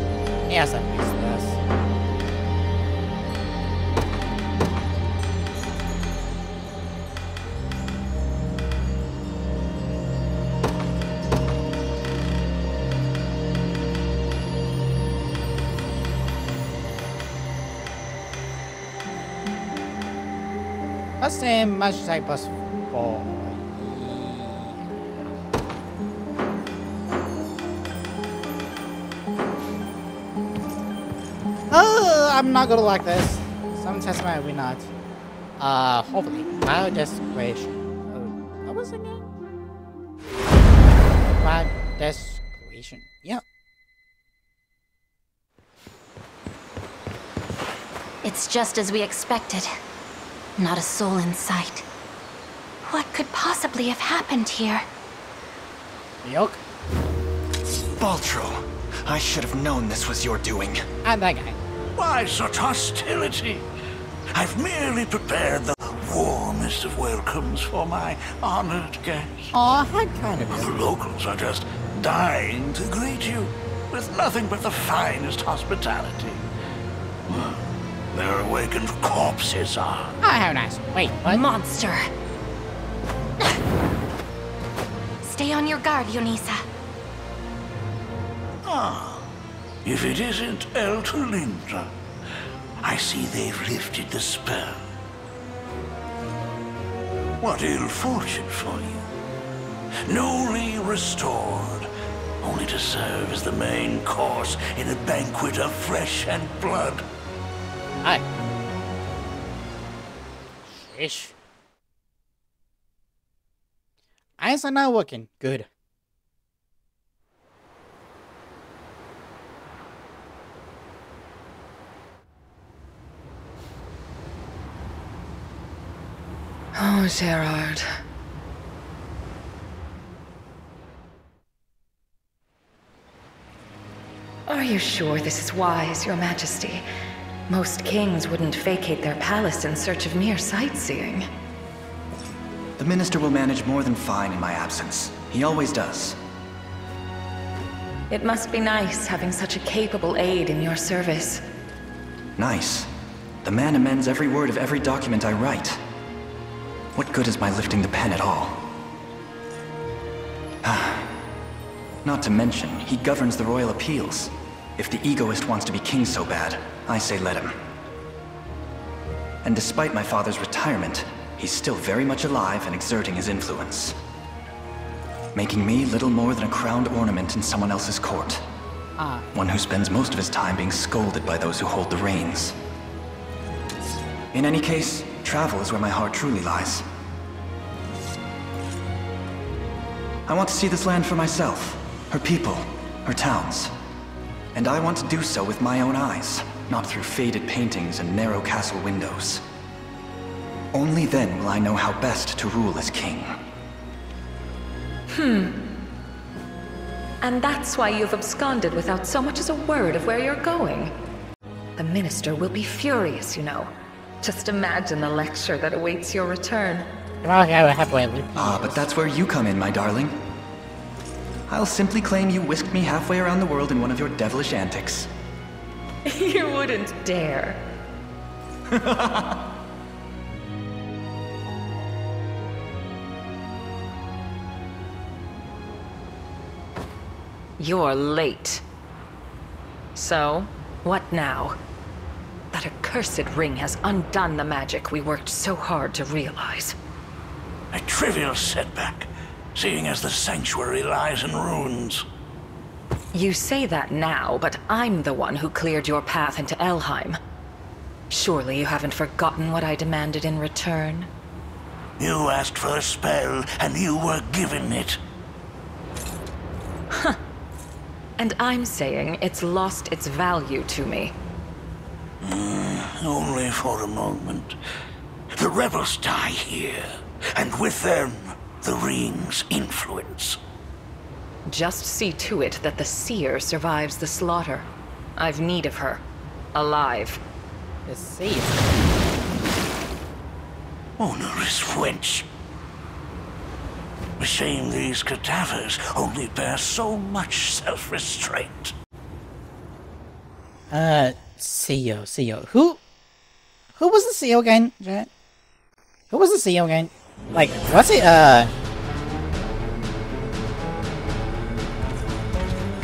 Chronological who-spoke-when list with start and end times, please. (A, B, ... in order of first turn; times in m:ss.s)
0:00.5-0:01.6 A
0:21.2-0:24.9 A
0:31.7-0:34.9 A
0:35.6-0:39.3 A
0:41.4-0:43.4 A
0:48.2-0:49.7 B
0:50.6-0:51.8 B
0:52.8-0:54.8 B
0:56.2-0:56.6 A
0:58.0-1:00.8 C
1:01.0-1:01.6 A
1:02.0-1:03.7 D
1:04.3-1:09.6 D
1:09.5-1:10.8 A
1:10.5-1:16.4 D
1:17.3-1:17.6 D
1:18.1-1:20.2 D
1:20.2-1:21.4 A
1:21.3-1:22.0 B
1:25.2-1:26.6 B
1:28.6-1:29.2 D
1:29.8-1:31.9 D
1:32.8-1:34.8 D
1:37.4-1:39.0 D
1:40.1-1:41.9 D
1:42.4-1:47.0 D
1:50.8-1:51.3 A
1:54.4-1:55.7 A
2:06.8-2:07.9 E
2:14.5-2:16.8 E
2:17.5-2:21.3 E
2:22.8-2:26.2 C
2:28.1-2:31.4 E
2:32.4-2:32.9 C
2:33.4-2:35.8 C
2:37.0-2:38.6 C
2:40.6-2:41.1 C
2:42.0-2:47.6 C
2:49.4-2:54.0 C
2:55.3-2:58.4 C
2:59.0-2:59.3 A
2:59.3-3:02.6 C
3:04.3-3:06.9 C
3:10.3-3:13.7 C
3:14.6-3:19.4 C
3:20.7-3:23.4 C
3:25.1-3:25.6 E
3:27.2-3:30.9 E
3:31.8-3:33.7 E
3:34.2-3:36.9 E
3:37.2-3:38.8 A
3:38.4-3:40.2 C
3:41.5-3:45.1 C
3:46.1-3:47.6 E
3:48.7-3:49.4 C
3:57.6-3:58.6 E
4:00.0-4:01.6 E
4:02.5-4:06.8 E
4:07.7-4:12.0 D
4:13.1-4:17.2 E
4:18.1-4:21.1 E
4:22.0-4:25.0 D
4:26.9-4:27.2 E
4:28.2-4:31.2 E
4:32.2-4:34.6 D
4:35.4-4:40.4 D
4:41.5-4:46.0 E
4:46.6-4:47.2 E
4:47.9-4:48.6 A
4:51.0-4:52.3 D
4:54.2-4:58.7 D
5:00.7-5:02.8 A
5:03.8-5:05.1 A
5:06.1-5:08.5 A